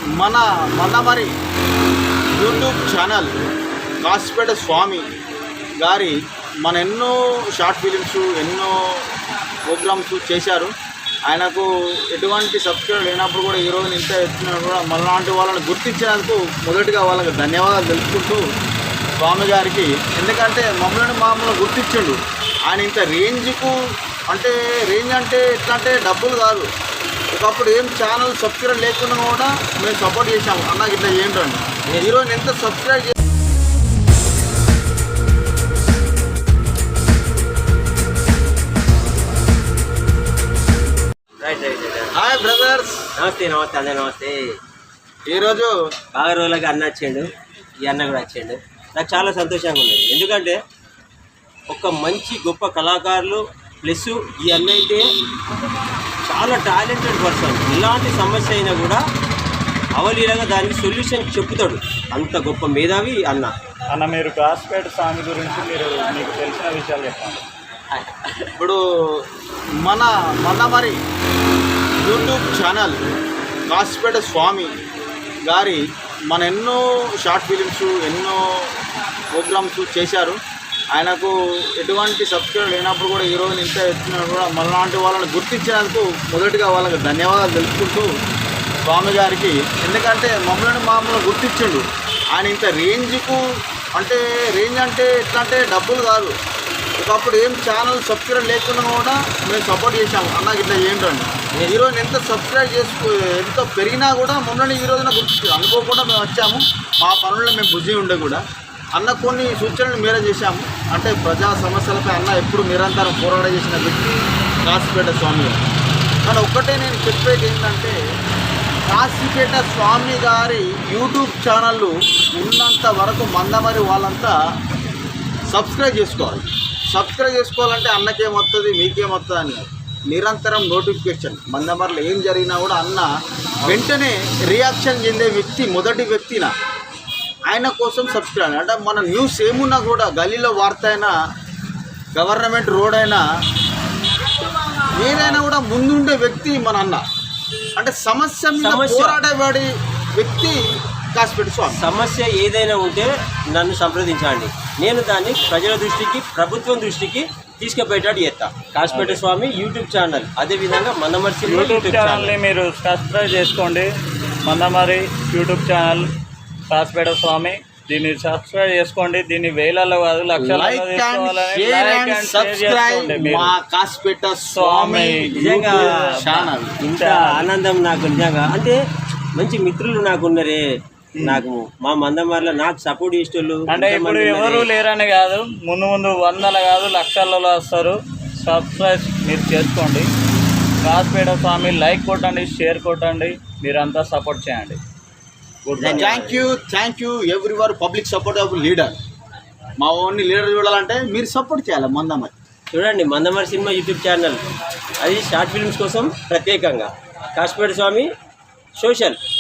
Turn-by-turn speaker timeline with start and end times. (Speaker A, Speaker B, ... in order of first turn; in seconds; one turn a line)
Speaker A: 0.2-1.3
Speaker A: 2.4-3.4
Speaker A: 4.0-5.1
Speaker A: 5.8-8.8
Speaker A: 9.7-10.7
Speaker A: 11.3-18.4
Speaker A: 19.2-22.2
Speaker A: 22.7-23.8
Speaker A: 24.3-26.7
Speaker A: 27.3-33.1
Speaker B: 41.4-42.1
Speaker A: 42.1-43.1
Speaker B: 43.2-44.5
Speaker A: 45.3-45.7
Speaker B: 46.1-47.3
Speaker B: 47.8-50.6
Speaker B: 51.7-55.1
Speaker B: 56.2-59.0
Speaker B: 60.0-63.5
Speaker C: 63.9-67.4
Speaker B: 67.9-68.5
Speaker A: 68.6-69.2
Speaker A: 69.8-71.0
Speaker A: 72.0-73.0
Speaker A: 73.7-74.7
Speaker A: 75.5-78.4
Speaker A: 79.3-80.4
Speaker A: 80.9-88.1
Speaker A: 88.9-93.4
Speaker A: 94.0-96.3
Speaker A: 97.0-108.4
Speaker B: 101.5-101.8
Speaker A: 109.0-115.6
Speaker A: 116.2-118.0
Speaker A: 118.9-124.3
Speaker A: 125.5-133.1
Speaker A: 133.6-136.5
Speaker A: 137.5-141.2
Speaker A: 142.2-143.2
Speaker A: 144.9-147.1
Speaker B: 145.1-145.4
Speaker A: 147.8-151.8
Speaker B: 148.6-149.2
Speaker B: 151.8-162.4
Speaker C: 158.9-159.2
Speaker C: 161.4-163.9
Speaker C: 164.5-166.1
Speaker C: 166.7-173.5
Speaker A: 170.4-176.8
Speaker C: 174.6-177.5
Speaker B: 175.3-178.8
Speaker B: 179.4-180.6
Speaker B: 181.2-184.7
Speaker C: 183.7-190.1
Speaker C: 190.8-194.8
Speaker C: 195.7-196.1
Speaker B: 195.8-196.4
Speaker A: 196.0-199.0
Speaker A: 199.8-202.3
Speaker B: 202.7-204.4
Speaker B: 205.0-208.1
Speaker B: 208.8-209.2